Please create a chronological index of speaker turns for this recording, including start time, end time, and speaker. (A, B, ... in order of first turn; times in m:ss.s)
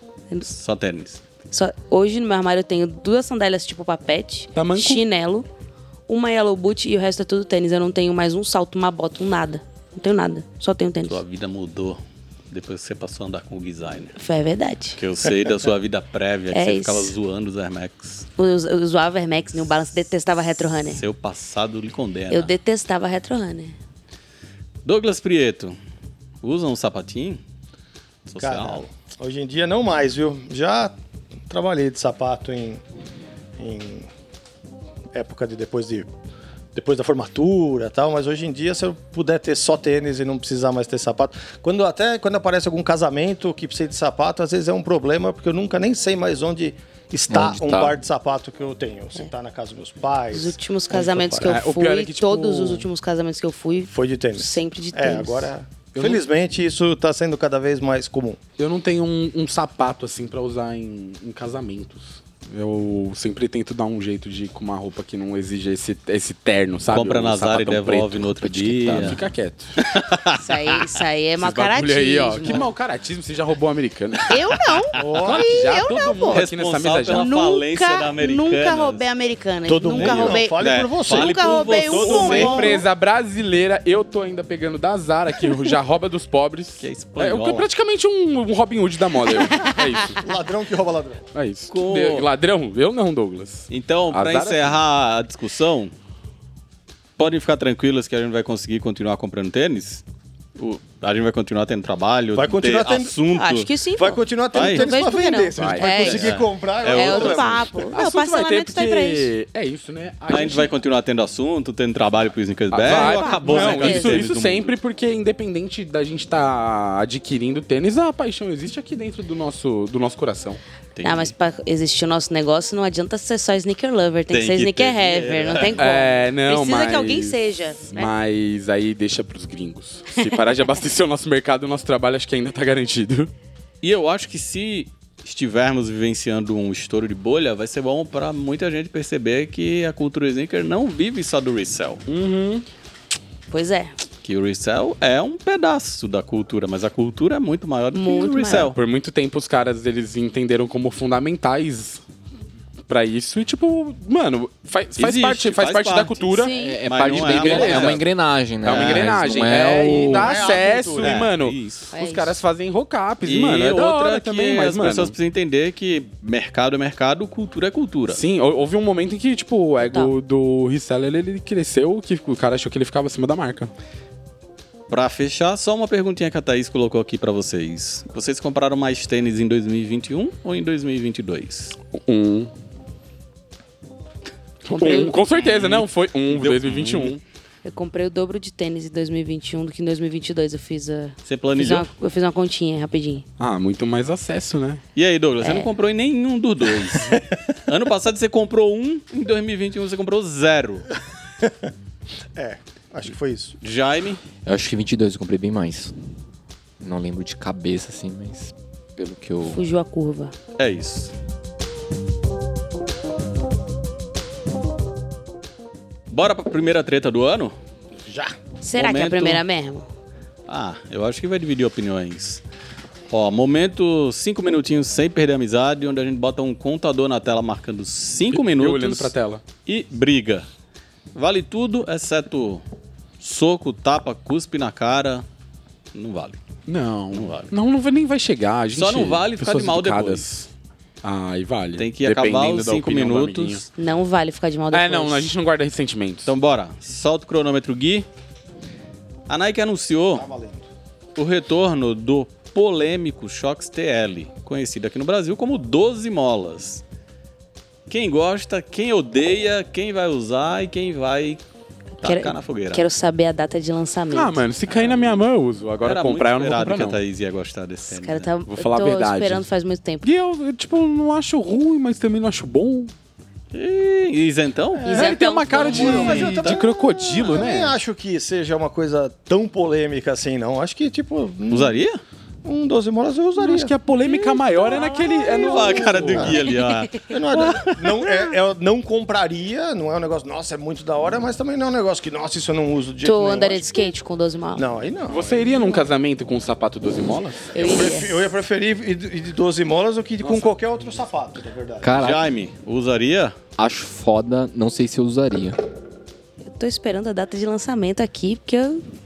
0:00.4-0:01.2 A
0:01.5-0:05.4 B
0:04.5-0:05.0 C
0:06.1-0:11.2 B
0:11.1-0:14.2 A
0:14.2-0:15.0 B
0:15.0-0:18.3 A
0:16.5-0:17.1 B
0:18.4-0:21.0 B
0:20.8-0:22.5 A
0:22.3-0:23.7 B
0:24.8-0:25.8 A
0:26.4-0:27.4 A
0:28.3-0:28.9 A
0:28.4-0:30.9 D
0:31.5-0:32.8 D
0:33.6-0:34.1 D
0:35.1-0:36.1 D
0:36.7-0:51.6 D
0:47.3-0:48.0 E
0:50.3-0:55.5 B
0:51.4-0:52.9 C
0:53.9-0:58.4 D
0:55.9-0:56.2 C
0:58.6-1:08.3 C
1:06.9-1:09.2 A
1:08.4-1:09.2 E
1:08.9-1:09.8 C
1:09.8-1:10.9 A
1:10.4-1:12.6 B
1:11.4-1:14.4 C
1:14.3-1:16.4 B
1:14.3-1:14.8 A
1:15.0-1:15.6 D
1:15.2-1:17.3 C
1:16.3-1:19.0 A
1:17.1-1:22.7 B
1:19.6-1:22.8 D
1:19.9-1:22.8 A
1:21.9-1:30.2 C
1:26.8-1:27.7 A
1:29.5-1:29.8 B
1:30.2-1:31.2 D
1:31.3-1:34.7 C
1:31.7-1:32.3 A
1:33.7-1:35.9 A
1:37.2-1:40.0 A
1:40.6-1:43.7 A
1:42.3-1:43.2 D
1:43.3-1:49.3 B
1:44.0-1:47.9 D
1:44.5-1:44.9 A
1:45.6-1:46.0 C
1:46.0-1:47.7 A
1:47.9-1:50.7 C
1:50.3-1:54.7 A
1:52.7-2:00.6 C
1:52.8-1:54.3 B
2:00.9-2:01.3 A
2:01.0-2:08.1 B
2:04.3-2:05.8 A
2:05.8-2:13.3 C
2:13.8-2:22.0 A
2:22.1-2:22.6 C
2:23.5-2:23.9 B
2:24.2-2:28.8 A
2:27.9-2:28.7 B
2:28.5-2:32.0 C
2:32.9-2:36.5 C
2:35.0-2:36.3 A
2:36.2-2:36.9 B
2:36.5-2:40.3 E
2:36.8-2:38.1 A
2:37.2-2:38.0 C
2:38.6-2:45.1 C
2:38.6-2:39.2 A
2:39.8-2:41.2 D
2:41.0-2:41.9 A
2:41.9-2:42.4 B
2:43.2-2:48.2 A
2:48.1-2:53.7 C
2:49.8-2:50.1 B
2:54.9-3:01.8 A
3:01.9-3:02.5 C
3:04.6-3:07.2 C
3:04.7-3:05.2 B
3:05.4-3:07.1 A
3:07.6-3:13.2 B
3:11.3-3:11.9 A
3:13.4-3:14.8 C
3:14.9-3:20.9 A
3:15.4-3:15.7 B
3:21.4-3:21.7 D
3:22.4-3:23.6 D
3:23.6-3:24.2 A
3:24.4-3:25.9 E
3:26.8-3:29.6 E
3:29.4-3:30.3 B
3:30.6-3:31.1 A
3:36.1-3:37.5 A
3:38.0-3:38.4 D
3:38.6-3:39.9 B
3:38.7-3:39.4 A
3:40.5-3:42.4 A
3:43.1-3:49.1 A
3:48.3-3:49.4 C
3:49.6-3:50.4 A
3:51.1-3:52.6 A
3:53.2-3:55.2 A
3:55.9-3:56.4 A
3:56.7-4:00.5 C
3:57.1-3:57.5 A
3:58.7-4:00.3 A
4:01.0-4:03.6 C
4:01.8-4:03.7 A
4:03.8-4:05.3 B
4:04.7-4:06.3 C
4:06.3-4:08.0 A
4:09.3-4:10.3 A
4:10.1-4:10.6 D
4:11.2-4:16.8 A
4:17.9-4:21.4 A
4:22.0-4:22.8 A
4:22.0-4:24.4 B
4:24.1-4:27.0 C
4:24.7-4:25.2 A
4:25.8-4:28.3 A
4:27.9-4:30.0 B
4:28.5-4:29.5 C
4:30.0-4:32.9 C
4:33.5-4:36.6 A
4:34.8-4:41.8 D
4:34.8-4:36.4 B
4:34.9-4:37.8 C
4:41.5-4:42.0 A
4:42.4-4:43.7 D
4:43.4-4:46.4 C
4:44.0-4:44.8 A
4:44.7-4:45.9 B
4:45.5-4:48.2 A
4:45.8-4:46.4 D
4:46.4-4:47.0 B
4:47.0-4:53.9 D
4:53.0-4:54.6 B
4:54.5-4:55.5 D
4:55.1-4:57.8 C
4:57.5-4:58.3 B
4:57.6-5:02.0 D
5:00.2-5:00.5 C
5:01.8-5:02.2 E
5:02.0-5:03.4 A
5:03.6-5:05.6 E
5:06.4-5:08.8 B